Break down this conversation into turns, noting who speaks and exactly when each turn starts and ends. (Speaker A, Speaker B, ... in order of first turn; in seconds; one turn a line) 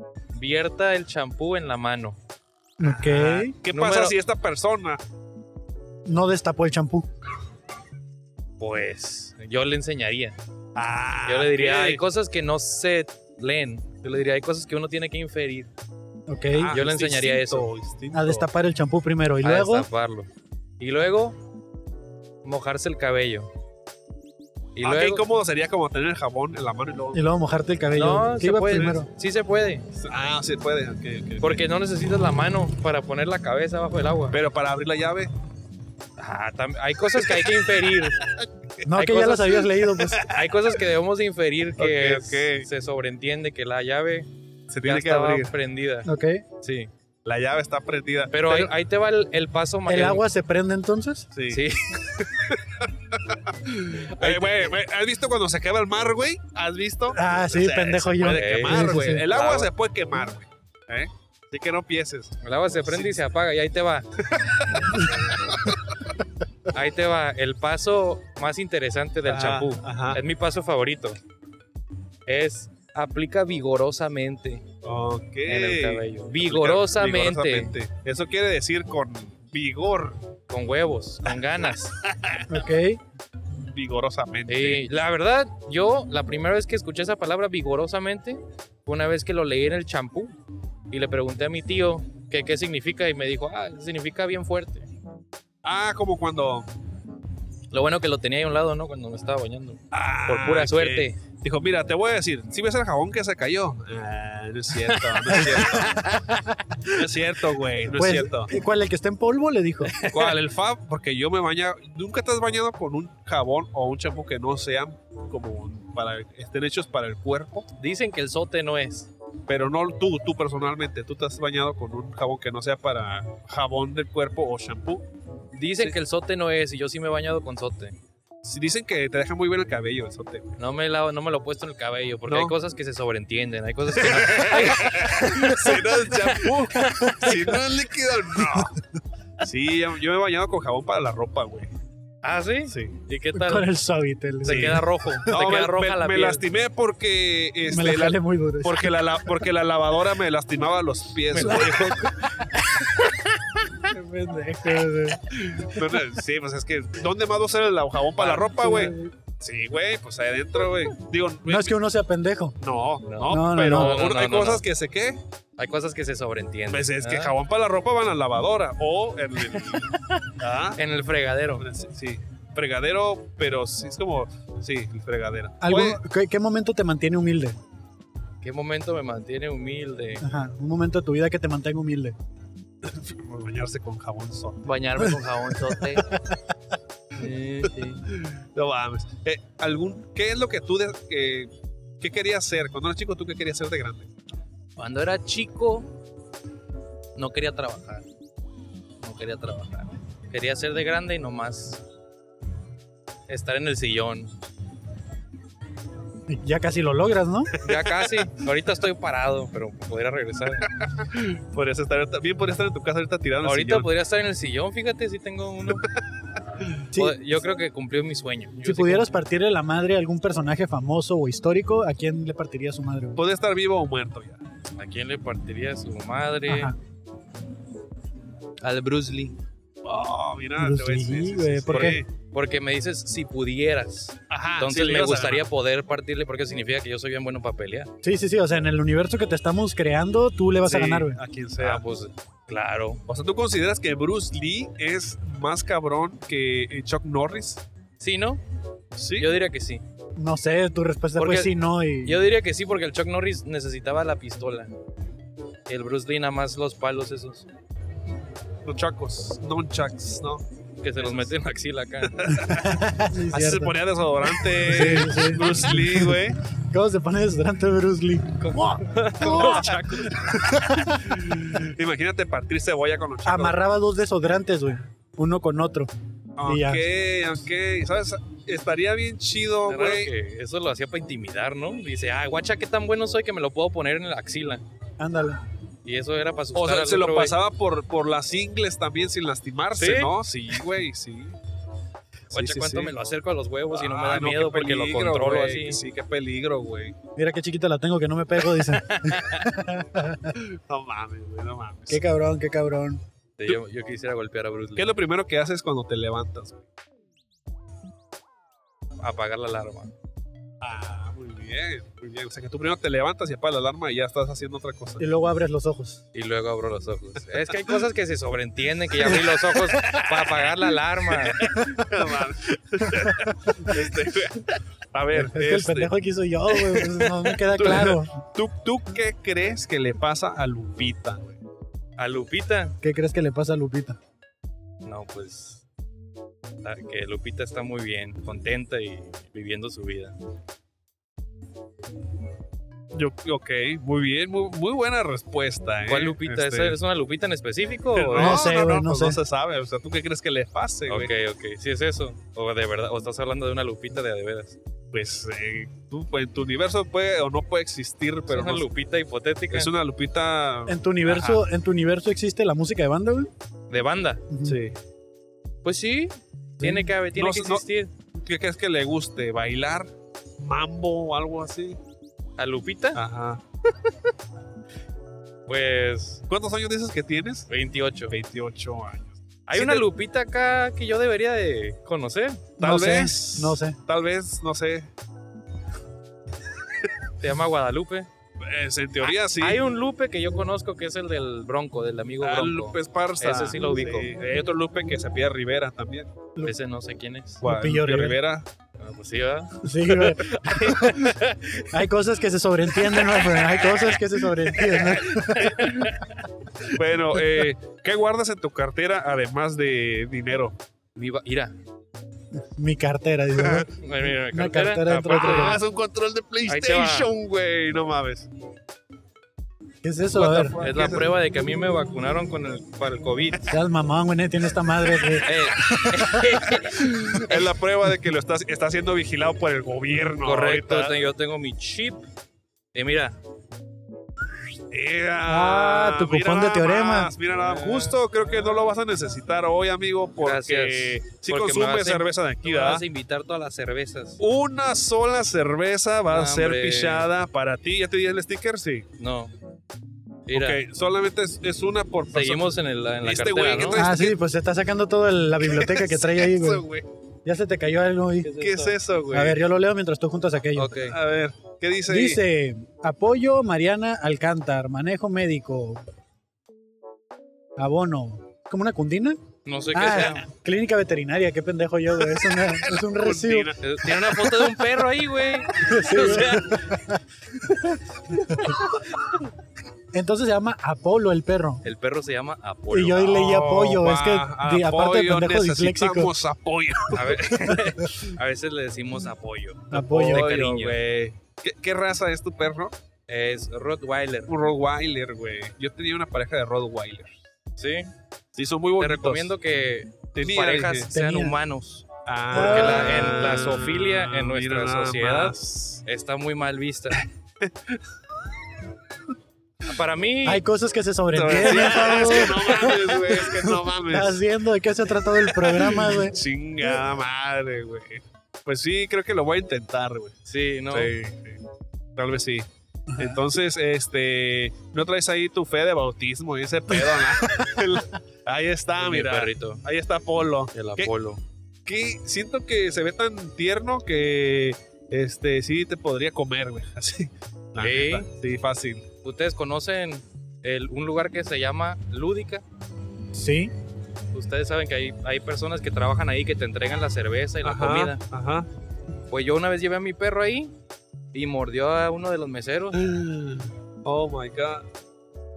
Speaker A: 0.3-2.2
Speaker B: 2.8-3.5
Speaker C: 2.8-5.0
Speaker A: 3.7-4.2
Speaker B: 6.0-7.1
Speaker A: 8.6-10.3
Speaker C: 10.7-12.0
Speaker A: 11.3-15.7
Speaker B: 16.3-16.8
Speaker C: 16.5-18.5
Speaker A: 16.7-17.7
Speaker B: 18.1-19.9
Speaker A: 19.4-21.4
Speaker A: 22.4-23.5
Speaker A: 24.8-25.2
Speaker C: 24.8-27.2
Speaker B: 27.1-29.1
Speaker A: 27.9-29.8
Speaker C: 28.7-29.0
Speaker C: 29.9-31.6
Speaker A: 31.4-34.4
Speaker C: 34.3-35.3
Speaker A: 36.2-38.2
Speaker C: 37.2-37.5
Speaker C: 38.2-40.4
Speaker B: 38.9-40.3
Speaker A: 39.0-39.4
Speaker A: 40.2-44.3
Speaker C: 41.8-42.7
Speaker C: 44.7-45.5
Speaker A: 44.8-46.1
Speaker B: 46.0-46.5
Speaker A: 46.6-46.9
Speaker C: 47.2-48.7
Speaker A: 48.3-50.2
Speaker B: 49.9-51.3
Speaker C: 51.3-63.2
Speaker A: 51.5-52.2
Speaker A: 54.2-54.8
Speaker B: 57.1-59.2
Speaker A: 58.3-59.7
Speaker A: 62.4-64.1
Speaker C: 64.3-65.7
Speaker A: 66.7-71.2
Speaker C: 69.3-70.2
Speaker A: 72.2-74.7
Speaker C: 74.8-80.2
Speaker A: 75.5-77.7
Speaker A: 80.5-81.9
Speaker C: 82.0-82.5
Speaker B: 82.5-83.0
Speaker C: 83.7-84.8
Speaker A: 84.5-90.3
Speaker A: 90.9-94.8
Speaker C: 95.6-96.7
Speaker A: 97.7-101.2
Speaker C: 99.9-105.9
Speaker A: 104.9-106.2
Speaker B: 106.5-107.0
Speaker C: 106.9-108.5
Speaker B: 107.9-109.9
Speaker A: 109.8-110.4
Speaker C: 110.1-117.7
Speaker A: 117.8-119.1
Speaker C: 119.5-125.0
Speaker A: 125.5-128.0
Speaker C: 128.4-130.5
Speaker A: 130.6-135.7
Speaker C: 132.3-132.5
Speaker C: 134.0-138.8
Speaker A: 136.7-137.3
Speaker B: 136.9-137.4
Speaker C: 139.4-141.7
Speaker A: 142.2-143.7
Speaker C: 142.7-143.0
Speaker B: 143.3-144.9
Speaker C: 144.4-152.0
Speaker A: 144.4-146.4
Speaker B: 147.7-148.9
Speaker A: 151.3-152.1
Speaker B: 151.4-151.8
Speaker B: 153.8-155.3
Speaker C: 155.4-161.7
Speaker A: 158.2-158.8
Speaker B: 158.4-159.1
Speaker B: 161.4-162.6
Speaker C: 162.6-165.2
Speaker A: 163.1-164.6
Speaker B: 163.3-164.0
Speaker A: 165.6-167.3
Speaker C: 166.7-170.8
Speaker A: 170.8-171.7
Speaker C: 171.6-176.0
Speaker B: 175.6-177.6
Speaker A: 178.4-180.2
Speaker B: 180.2-182.2
Speaker C: 182.8-184.6
Speaker A: 184.6-186.1
Speaker B: 185.7-186.4
Speaker A: 187.2-188.0
Speaker C: 188.0-194.1
Speaker A: 194.8-195.9
Speaker A: 197.1-198.0
Speaker A: 199.0-201.8
Speaker A: 203.3-204.3
Speaker B: 206.3-207.5
Speaker A: 207.6-210.7
Speaker C: 207.7-208.0
Speaker C: 211.0-213.9
Speaker A: 213.4-215.8
Speaker B: 216.9-217.2
Speaker A: 217.0-219.1
Speaker B: 218.6-223.2
Speaker C: 223.2-224.4
Speaker A: 224.8-226.7
Speaker B: 226.4-226.8
Speaker A: 228.6-229.4
Speaker C: 229.8-232.1
Speaker B: 230.6-232.0
Speaker A: 231.7-237.9
Speaker C: 234.3-235.4
Speaker B: 238.0-241.2
Speaker C: 240.6-241.8
Speaker A: 241.6-243.0
Speaker C: 243.1-247.6
Speaker A: 248.0-248.4
Speaker C: 249.0-249.3
Speaker A: 249.2-249.8
Speaker B: 250.2-252.2
Speaker A: 251.2-251.5
Speaker A: 252.0-254.7
Speaker A: 255.7-257.5
Speaker C: 258.6-260.4
Speaker A: 260.8-262.4
Speaker C: 261.0-261.3
Speaker C: 262.0-266.4
Speaker B: 262.5-263.8
Speaker B: 264.4-269.7
Speaker A: 268.4-270.2
Speaker C: 268.9-273.6
Speaker B: 270.5-271.4
Speaker B: 273.2-275.9
Speaker C: 276.4-280.1
Speaker B: 276.4-276.9
Speaker A: 279.7-284.6
Speaker B: 285.0-285.4
Speaker A: 285.8-287.3
Speaker C: 286.5-291.4
Speaker A: 289.8-290.1
Speaker C: 292.3-292.9
Speaker A: 292.3-295.8
Speaker C: 293.7-297.0
Speaker B: 297.1-300.3
Speaker A: 298.9-299.4
Speaker C: 300.4-302.0
Speaker B: 301.9-303.0
Speaker A: 303.4-305.0
Speaker C: 304.8-306.6
Speaker A: 309.0-309.9
Speaker C: 310.6-315.1
Speaker B: 315.0-316.0
Speaker A: 316.1-321.5
Speaker C: 319.1-325.9
Speaker B: 325.1-328.1
Speaker C: 327.5-331.4
Speaker A: 332.0-332.8
Speaker B: 332.8-334.0
Speaker A: 334.8-335.6
Speaker A: 336.6-340.1
Speaker C: 342.9-346.8
Speaker A: 345.9-348.4
Speaker C: 347.9-351.1
Speaker B: 348.1-349.2
Speaker A: 350.9-354.6
Speaker C: 354.9-358.7
Speaker A: 358.3-359.7
Speaker C: 359.5-361.4
Speaker B: 360.7-363.3
Speaker A: 363.7-364.2
Speaker B: 364.3-364.6
Speaker C: 364.4-364.8
Speaker A: 365.6-367.9
Speaker B: 366.6-366.9
Speaker C: 367.1-367.6
Speaker C: 368.2-371.8
Speaker A: 372.4-373.0
Speaker C: 372.9-373.4
Speaker A: 375.5-376.2
Speaker C: 376.3-377.5
Speaker A: 377.5-378.1
Speaker C: 378.1-379.8
Speaker A: 379.5-382.5
Speaker B: 382.6-383.8
Speaker C: 382.6-384.9
Speaker A: 387.2-388.1
Speaker C: 388.4-389.6
Speaker A: 389.0-394.1
Speaker C: 392.2-396.1
Speaker A: 396.4-397.4
Speaker B: 397.4-398.2
Speaker C: 397.4-398.5
Speaker A: 398.8-399.7
Speaker B: 399.6-401.1
Speaker A: 400.3-401.6
Speaker B: 401.7-405.9
Speaker C: 405.4-405.7
Speaker A: 405.6-406.1
Speaker C: 406.6-410.6
Speaker A: 410.9-411.5
Speaker B: 412.3-413.7
Speaker C: 413.4-413.6
Speaker A: 413.8-415.6
Speaker B: 414.3-415.6
Speaker C: 415.1-418.3
Speaker A: 416.5-417.1
Speaker B: 419.8-420.5
Speaker C: 420.1-421.1
Speaker A: 420.6-423.4
Speaker B: 423.5-426.2
Speaker A: 425.2-426.7
Speaker C: 427.1-431.0
Speaker A: 430.2-432.0
Speaker A: 432.7-433.1
Speaker C: 434.7-442.8
Speaker B: 435.2-437.1
Speaker A: 437.4-438.7
Speaker A: 440.2-444.2
Speaker C: 444.2-448.9
Speaker A: 446.1-447.1
Speaker A: 449.0-449.3
Speaker A: 450.3-450.6
Speaker C: 450.3-454.2
Speaker A: 452.1-453.9
Speaker B: 453.8-456.6
Speaker C: 455.5-456.9
Speaker B: 457.2-458.3
Speaker A: 458.2-458.8
Speaker C: 458.4-459.4
Speaker B: 459.1-460.8
Speaker A: 460.6-460.9
Speaker C: 460.9-462.2
Speaker B: 461.9-465.8
Speaker B: 467.6-469.2
Speaker A: 469.4-470.3
Speaker B: 469.7-473.5
Speaker C: 472.4-474.1
Speaker A: 473.6-476.5
Speaker B: 475.6-477.7
Speaker C: 475.7-476.4
Speaker B: 479.9-481.6
Speaker A: 481.6-483.2
Speaker B: 482.7-486.1
Speaker C: 483.1-487.6
Speaker A: 486.9-490.8
Speaker B: 489.7-490.3
Speaker C: 489.8-492.7
Speaker A: 493.1-494.3
Speaker C: 494.3-497.2
Speaker A: 497.6-497.9
Speaker C: 498.3-499.3
Speaker A: 498.8-507.0
Speaker C: 500.1-500.9
Speaker B: 500.9-501.4
Speaker C: 502.1-505.8
Speaker B: 502.3-502.9
Speaker C: 507.0-507.8
Speaker A: 509.7-510.4
Speaker B: 510.2-516.8
Speaker C: 511.1-514.2
Speaker C: 515.2-520.1
Speaker A: 520.3-520.9
Speaker C: 520.7-521.4
Speaker C: 522.0-522.5
Speaker B: 522.9-523.2
Speaker C: 523.0-530.9
Speaker A: 528.8-529.6
Speaker A: 530.5-531.2
Speaker C: 531.6-538.9
Speaker A: 537.6-538.1
Speaker A: 539.0-542.4
Speaker B: 543.1-543.5
Speaker A: 544.1-548.0
Speaker C: 547.4-548.5
Speaker A: 549.1-550.5
Speaker A: 551.1-552.8
Speaker C: 552.7-554.6